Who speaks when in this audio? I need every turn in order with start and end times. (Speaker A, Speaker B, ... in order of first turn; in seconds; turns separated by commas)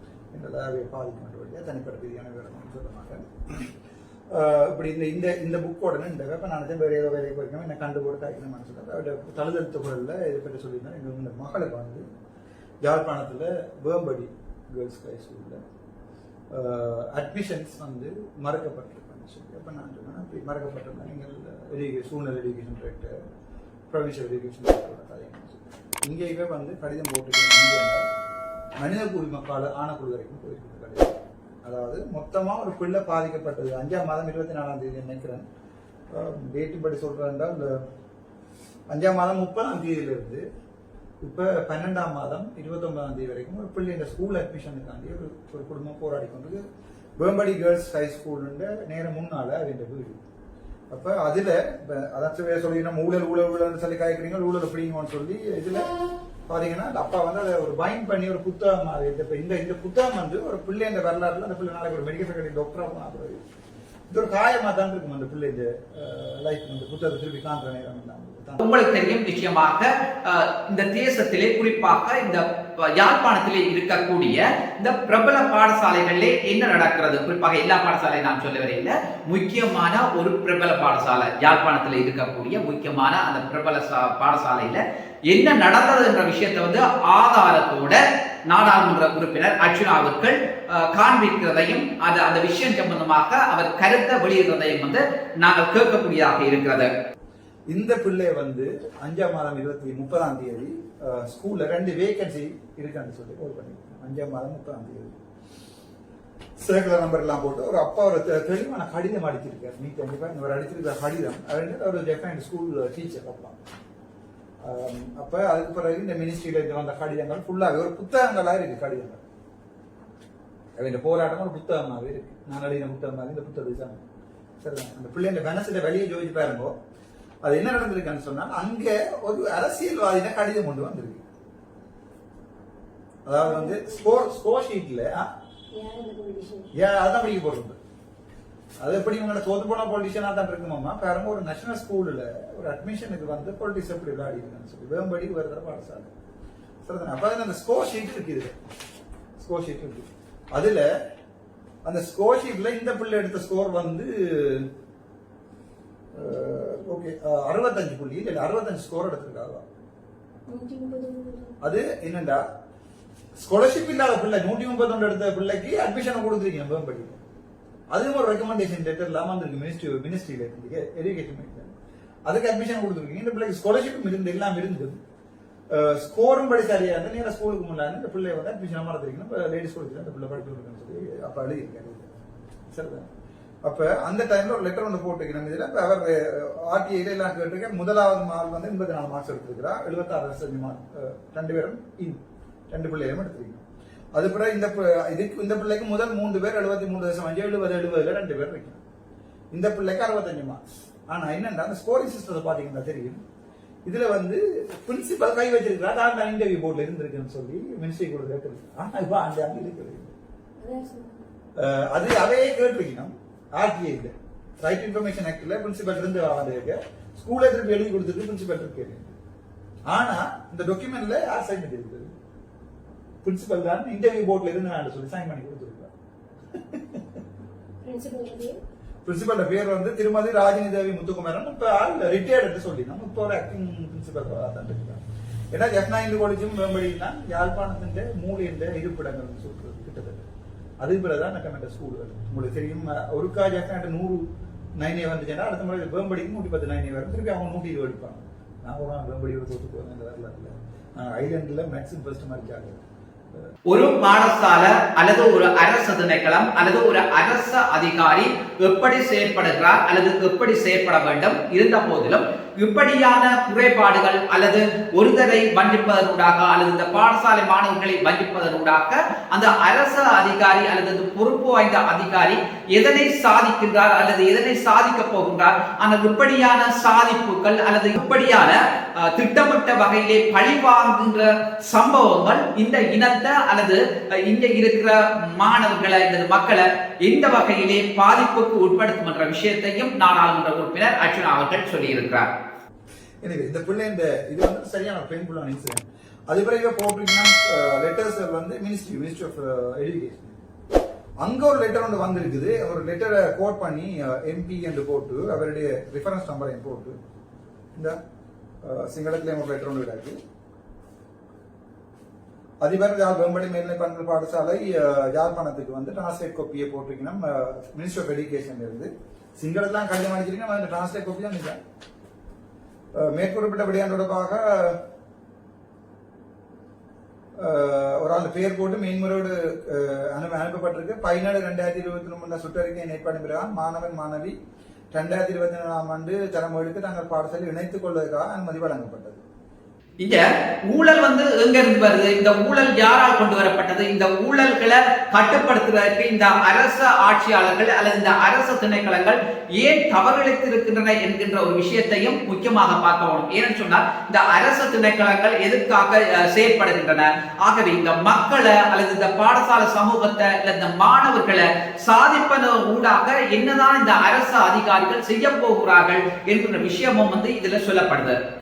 Speaker A: 0.3-3.7, Speaker A: 4.3-12.1, Speaker A: 12.8-15.6, Speaker A: 16.5-23.1, Speaker A: 23.9-28.1, Speaker A: 28.8-35.5, Speaker A: 36.1-37.8, Speaker A: 38.9-40.4, Speaker A: 41.2-46.6, Speaker A: 47.2-50.2, Speaker A: 50.9-55.9, Speaker A: 56.5-63.4, Speaker A: 64.1-68.6, Speaker B: 68.6-96.9, Speaker A: 97.7-105.2, Speaker A: 106.6-113.6, Speaker A: 114.6-119.2, Speaker A: 120.8-124.0, Speaker A: 124.6-126.7, Speaker A: 127.4-131.2, Speaker A: 133.2-135.3, Speaker C: 133.4-134.2, Speaker C: 135.8-136.7, Speaker A: 136.7-137.8, Speaker A: 138.8-146.1, Speaker A: 146.8-148.5, Speaker A: 149.4-150.9, Speaker A: 151.8-154.7, Speaker A: 156.1-159.7, Speaker C: 160.5-161.6, Speaker A: 161.6-162.4, Speaker A: 163.4-167.2, Speaker A: 167.9-171.8, Speaker A: 172.2-175.0, Speaker A: 175.7-182.1, Speaker A: 182.7-183.1, Speaker A: 183.6-198.8, Speaker A: 199.5-203.2, Speaker A: 203.9-210.1, Speaker C: 210.6-211.2, Speaker A: 211.6-219.2, Speaker A: 219.9-222.1, Speaker A: 223.2-225.9, Speaker A: 226.6-227.0, Speaker C: 227.8-228.6, Speaker A: 229.0-240.3, Speaker A: 240.8-244.2, Speaker A: 244.8-252.8, Speaker B: 253.7-292.3, Speaker A: 293.2-300.4, Speaker A: 301.2-307.0, Speaker A: 308.6-310.2, Speaker A: 312.6-321.6, Speaker A: 322.9-324.8, Speaker A: 327.4-334.3, Speaker A: 334.9-339.2, Speaker B: 340.0-368.2